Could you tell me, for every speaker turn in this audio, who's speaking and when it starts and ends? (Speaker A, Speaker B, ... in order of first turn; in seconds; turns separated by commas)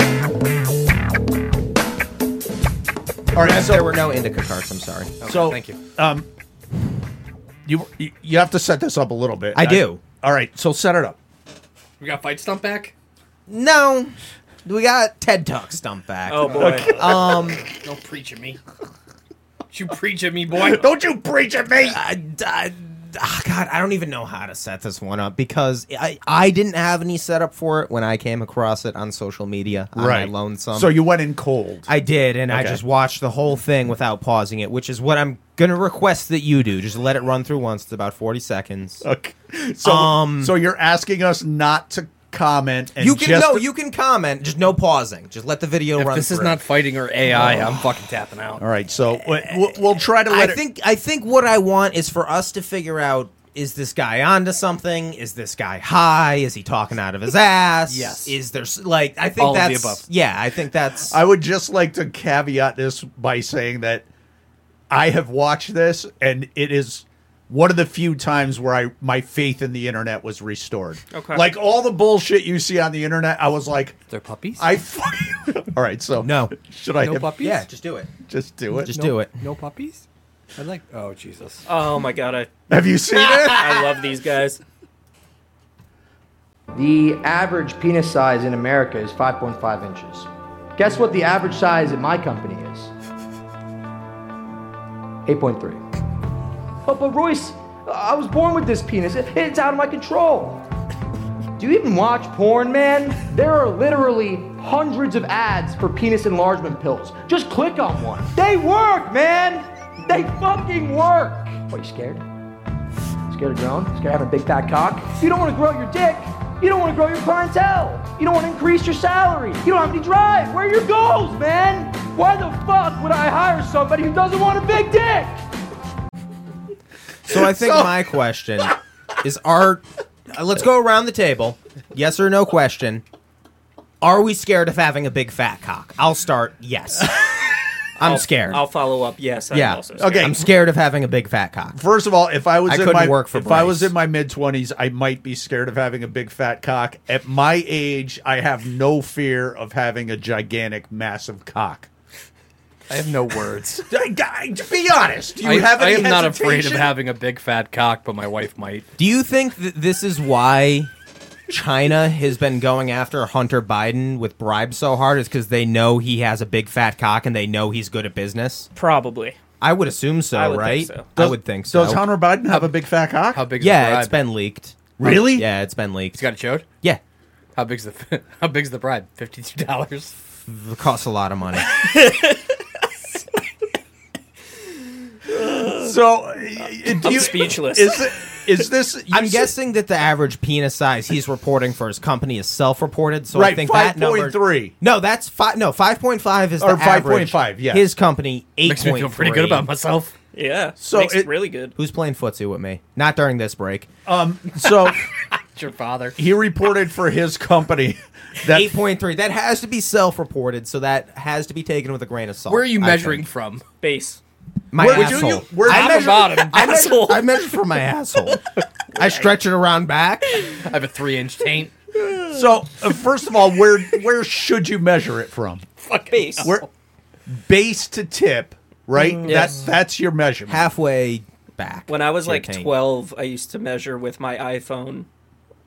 Speaker A: 3.3-4.0, Speaker B: 3.3-5.2, Speaker C: 5.2-5.8, Speaker A: 5.2-6.3, Speaker A: 7.7-11.2, Speaker B: 9.5-10.0, Speaker C: 12.0-12.9, Speaker B: 13.5-17.7, Speaker D: 16.3-17.1, Speaker C: 16.4-17.0, Speaker A: 16.6-17.6, Speaker C: 17.6-18.6, Speaker C: 19.7-20.8, Speaker A: 20.5-22.0, Speaker B: 21.8-30.9, Speaker A: 29.9-31.9, Speaker B: 31.9-39.0, Speaker A: 32.5-32.8, Speaker A: 39.0-43.6, Speaker B: 39.8-40.5, Speaker B: 43.0-46.6, Speaker C: 45.9-48.6, Speaker B: 47.4-47.7, Speaker A: 48.6-50.6, Speaker B: 50.3-61.2, Speaker C: 57.9-58.4, Speaker C: 59.4-60.0, Speaker A: 61.1-64.0, Speaker A: 64.9-74.0, Speaker D: 71.1-71.5, Speaker C: 74.1-74.7, Speaker A: 74.6-77.5, Speaker B: 76.2-76.5, Speaker C: 77.0-77.7, Speaker B: 77.4-78.1, Speaker A: 78.2-78.9, Speaker B: 78.8-79.3, Speaker C: 78.9-80.0, Speaker C: 80.5-81.6, Speaker D: 81.7-82.5, Speaker A: 82.7-83.8, Speaker D: 83.4-84.6, Speaker E: 86.7-92.9, Speaker E: 95.2-95.8, Speaker E: 96.8-100.6, Speaker E: 101.6-112.2, Speaker E: 113.3-125.4, Speaker B: 127.3-133.0, Speaker A: 127.3-128.0, Speaker B: 134.0-137.2, Speaker B: 138.0-138.6, Speaker D: 138.0-140.2, Speaker B: 139.5-141.8, Speaker A: 140.0-140.5, Speaker A: 141.7-151.9, Speaker B: 142.7-143.9, Speaker C: 152.9-153.9, Speaker A: 153.9-156.9, Speaker C: 155.4-158.9, Speaker B: 159.0-160.9, Speaker B: 161.5-168.7, Speaker D: 168.7-169.4, Speaker B: 169.6-172.1, Speaker D: 170.3-171.1, Speaker A: 171.2-173.4, Speaker C: 173.3-174.2, Speaker B: 173.6-176.2, Speaker A: 175.0-175.5, Speaker C: 176.1-176.7, Speaker C: 177.5-180.1, Speaker B: 180.4-181.8, Speaker D: 181.7-182.5, Speaker D: 185.3-185.9, Speaker A: 185.8-189.5, Speaker D: 187.0-188.1, Speaker B: 189.1-199.7, Speaker A: 193.3-194.7, Speaker A: 196.6-197.9, Speaker C: 198.6-200.1, Speaker D: 200.3-201.7, Speaker A: 200.8-201.3, Speaker B: 201.8-203.9, Speaker A: 204.1-205.0, Speaker C: 205.5-206.2, Speaker A: 206.2-208.7, Speaker B: 208.5-213.2, Speaker C: 212.5-213.6, Speaker D: 213.8-214.2, Speaker B: 214.7-218.4, Speaker A: 214.8-216.4, Speaker C: 214.9-216.6, Speaker D: 215.9-217.4, Speaker B: 218.9-220.4, Speaker D: 219.0-219.2, Speaker C: 220.5-221.7, Speaker A: 222.3-225.7, Speaker C: 225.8-226.7, Speaker D: 226.1-226.5, Speaker A: 227.3-230.7, Speaker B: 229.0-229.5, Speaker D: 229.2-229.6, Speaker B: 230.5-232.7, Speaker D: 231.9-235.1